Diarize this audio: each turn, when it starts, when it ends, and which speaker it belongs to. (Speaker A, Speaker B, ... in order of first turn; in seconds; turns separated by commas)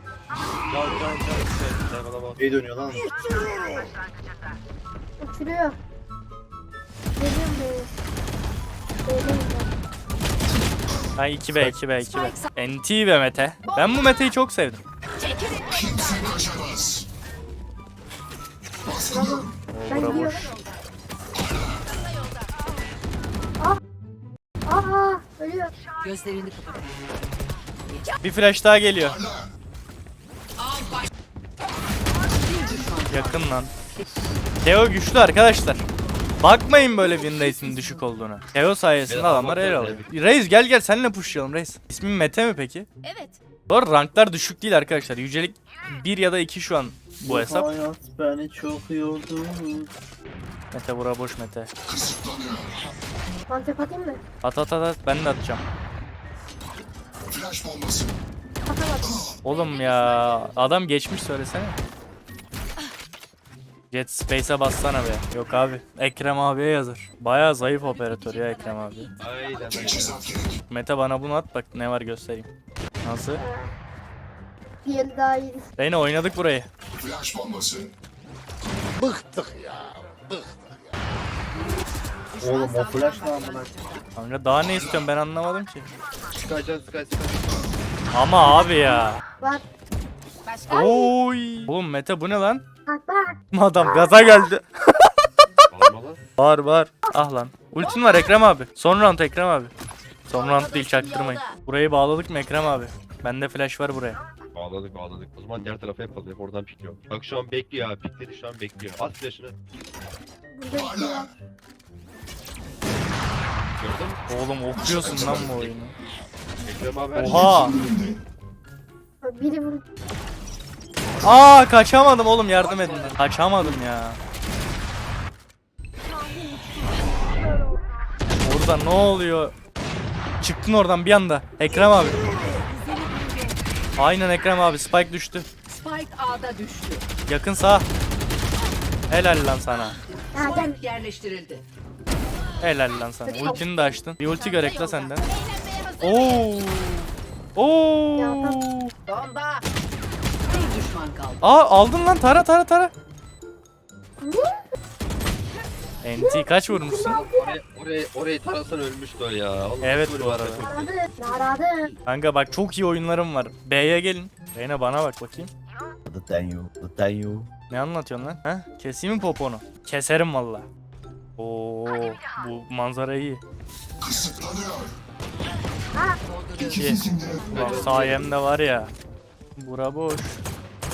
Speaker A: 0.7-2.4, Speaker B: 2.4-3.1, Speaker C: 5.2-5.8, Speaker C: 7.2-7.9, Speaker C: 9.1-9.7, Speaker D: 11.2-14.8, Speaker E: 15.7-16.6, Speaker C: 19.0-20.5, Speaker D: 19.7-20.5, Speaker E: 20.0-20.4, Speaker C: 24.7-25.7, Speaker E: 26.0-26.9, Speaker D: 28.2-29.2, Speaker E: 32.5-33.4, Speaker D: 33.1-33.7, Speaker D: 34.6-35.9, Speaker D: 36.4-42.9, Speaker A: 39.1-40.1, Speaker D: 43.7-47.7, Speaker B: 47.2-49.9, Speaker D: 50.7-51.7, Speaker C: 53.5-54.2, Speaker D: 54.4-55.6, Speaker C: 58.7-59.2, Speaker D: 59.4-61.8, Speaker D: 63.9-69.1, Speaker A: 69.2-70.3, Speaker D: 70.7-72.5, Speaker D: 73.0-73.4, Speaker C: 73.4-73.7, Speaker C: 74.8-75.7, Speaker D: 75.8-76.7, Speaker B: 79.1-79.4, Speaker E: 82.3-84.1, Speaker B: 82.4-83.7, Speaker D: 84.2-85.9, Speaker A: 86.4-87.4, Speaker D: 88.1-89.2, Speaker D: 90.7-92.6, Speaker C: 92.9-93.4, Speaker D: 93.5-95.0, Speaker A: 95.7-96.2, Speaker D: 96.4-99.7, Speaker D: 100.3-104.2, Speaker A: 104.5-109.5, Speaker C: 110.5-111.3, Speaker A: 113.8-114.2, Speaker D: 114.3-115.9, Speaker A: 115.1-115.6, Speaker A: 116.6-117.9, Speaker D: 117.2-117.8, Speaker C: 119.2-119.8, Speaker D: 121.2-124.2, Speaker A: 122.6-123.2, Speaker D: 128.4-129.5, Speaker D: 130.4-132.2, Speaker E: 133.0-133.6, Speaker D: 134.0-135.5, Speaker E: 135.7-137.1, Speaker D: 137.3-137.9, Speaker D: 139.1-140.0, Speaker E: 140.3-141.6, Speaker C: 140.3-140.8, Speaker D: 142.6-145.2, Speaker C: 143.3-143.8, Speaker D: 146.0-148.9, Speaker C: 148.2-148.6, Speaker E: 149.1-149.6, Speaker E: 150.5-151.4, Speaker D: 151.4-152.9, Speaker C: 154.2-154.6, Speaker D: 156.0-157.2, Speaker C: 156.2-157.5, Speaker A: 157.0-161.9, Speaker D: 159.8-160.7, Speaker C: 160.6-161.9, Speaker D: 162.1-165.5, Speaker B: 166.1-167.5, Speaker D: 167.7-170.7, Speaker D: 171.4-173.4, Speaker E: 176.2-176.8, Speaker D: 176.7-178.9, Speaker C: 177.4-178.1, Speaker A: 177.5-178.3, Speaker D: 179.6-180.4